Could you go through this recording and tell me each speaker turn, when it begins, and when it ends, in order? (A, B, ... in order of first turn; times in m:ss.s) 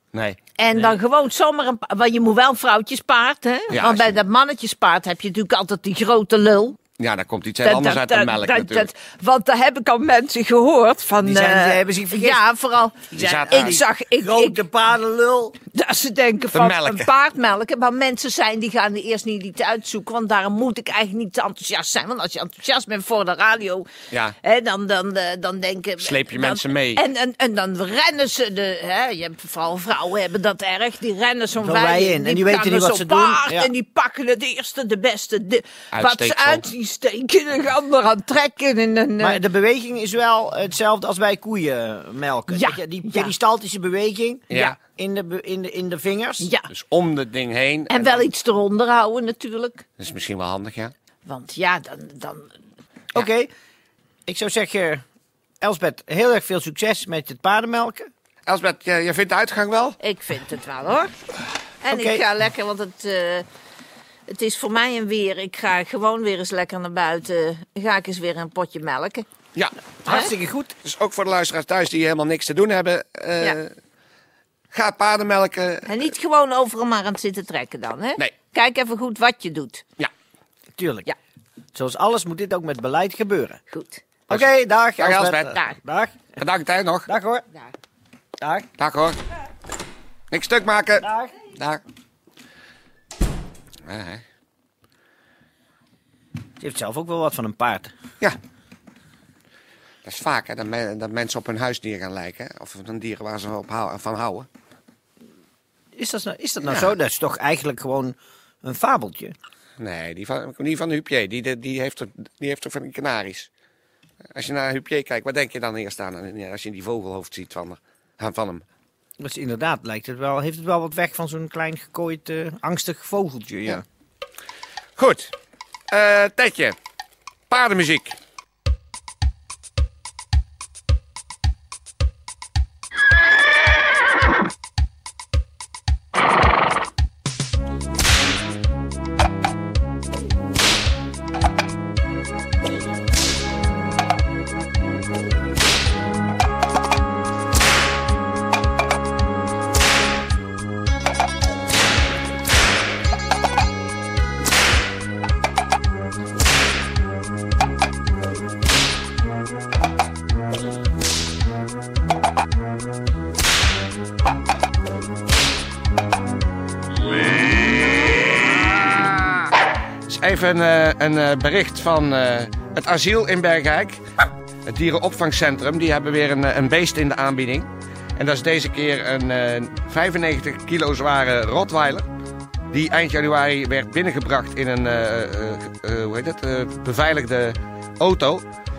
0:00.1-0:00.9 A
0:00.6-0:06.8 B
0:03.7-0:04.2 A
0:07.0-0:08.9 A
0:07.6-0:14.6 B
0:11.2-0:12.4 C
0:13.1-0:13.8 A
0:13.1-0:15.6 C
0:15.7-0:23.9 B
0:16.5-0:17.1 A
0:24.4-0:39.4 B
0:26.0-0:27.0 A
0:31.6-0:33.7 C
0:35.9-0:36.6 A
0:39.2-0:46.5 C
0:42.5-0:43.3 B
0:44.5-0:44.8 A
0:46.4-0:46.7 B
0:46.7-0:48.2 A
0:47.9-0:49.8 B
0:50.0-0:50.9 A
0:51.2-0:52.5 B
0:53.1-0:53.5 C
0:54.3-0:55.0 C
0:55.6-0:58.1 C
0:58.5-1:00.0 A
1:00.0-1:01.1 B
1:01.8-1:03.5 B
1:01.9-1:02.2 C
1:04.3-1:09.2 B
1:10.0-1:10.7 C
1:10.8-1:13.7 A
1:14.7-1:15.9 A
1:15.8-1:19.8 B
1:20.8-1:21.1 C
1:21.7-1:23.6 C
1:23.7-1:24.0 B
1:24.3-1:26.4 C
1:25.0-1:25.6 A
1:26.4-1:27.1 A
1:27.1-1:27.4 C
1:28.4-1:28.7 C
1:28.8-1:29.2 A
1:30.3-1:31.8 A
1:31.0-1:31.3 C
1:33.8-1:34.2 A
1:36.6-1:37.9 C
1:40.0-1:44.5 A
1:46.0-1:49.3 C
1:46.6-1:46.9 A
1:49.8-1:53.5 A
1:54.3-1:58.6 A
1:59.2-2:03.8 C
2:05.0-2:05.3 A
2:05.9-2:06.8 A
2:07.5-2:08.2 A
2:50.1-2:54.0 A
2:54.6-3:02.0 A
3:02.7-3:08.4 A